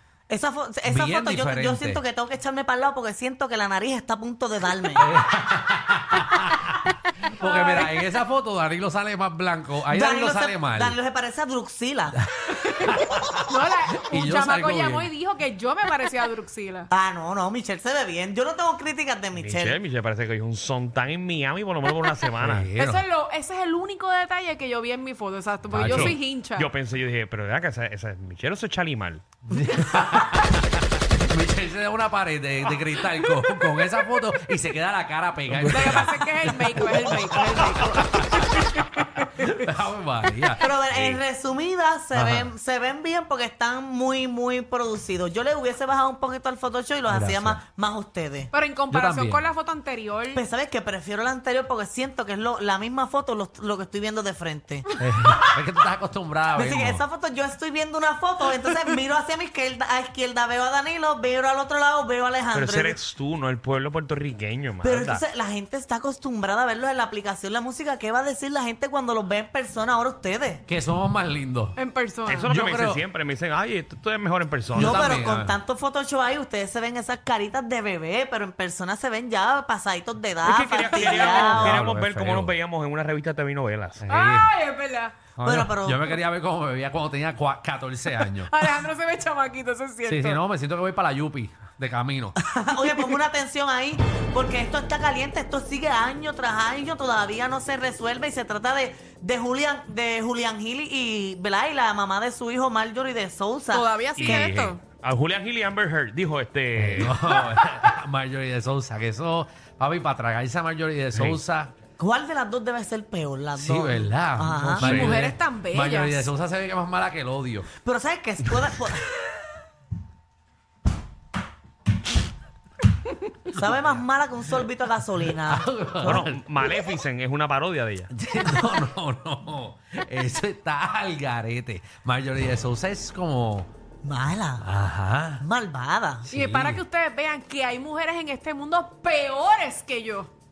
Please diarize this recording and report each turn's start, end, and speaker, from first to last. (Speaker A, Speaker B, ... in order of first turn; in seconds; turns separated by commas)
Speaker A: 0.3-5.1, Speaker B: 0.8-2.0, Speaker B: 5.0-11.0, Speaker C: 7.4-7.9, Speaker A: 9.9-12.2, Speaker B: 12.3-15.1, Speaker C: 13.5-16.9, Speaker A: 16.9-19.8, Speaker D: 19.4-22.6, Speaker B: 22.3-23.1, Speaker C: 22.8-26.7, Speaker B: 25.7-26.2, Speaker D: 26.1-29.2, Speaker B: 29.5-40.7, Speaker C: 35.6-38.1, Speaker A: 40.6-48.5, Speaker D: 40.9-41.2, Speaker B: 42.1-42.5, Speaker B: 47.1-47.6, Speaker C: 48.5-50.4, Speaker B: 48.9-49.5, Speaker A: 50.3-54.9, Speaker B: 55.0-57.0, Speaker A: 56.5-63.0, Speaker D: 62.5-65.2, Speaker A: 64.8-70.6, Speaker B: 70.7-71.8, Speaker C: 71.8-72.5, Speaker D: 72.3-74.8, Speaker B: 72.4-73.0, Speaker B: 74.7-75.6, Speaker A: 74.8-81.8, Speaker D: 80.4-84.1, Speaker B: 81.1-82.5, Speaker B: 84.0-84.5, Speaker C: 84.1-85.2, Speaker A: 85.4-86.1, Speaker B: 85.4-88.8, Speaker C: 88.5-90.4, Speaker B: 90.1-92.3, Speaker A: 92.4-104.5, Speaker C: 103.7-104.8, Speaker D: 104.4-107.1, Speaker B: 106.8-111.7, Speaker A: 112.0-115.1, Speaker B: 113.6-117.7, Speaker C: 114.8-116.2, Speaker A: 117.8-119.1, Speaker A: 123.5-126.2, Speaker B: 125.5-126.4, Speaker D: 126.1-128.1, Speaker B: 128.1-133.7, Speaker A: 134.0-134.7, Speaker B: 134.6-135.4, Speaker A: 135.4-136.3, Speaker B: 136.3-136.8, Speaker C: 136.3-140.3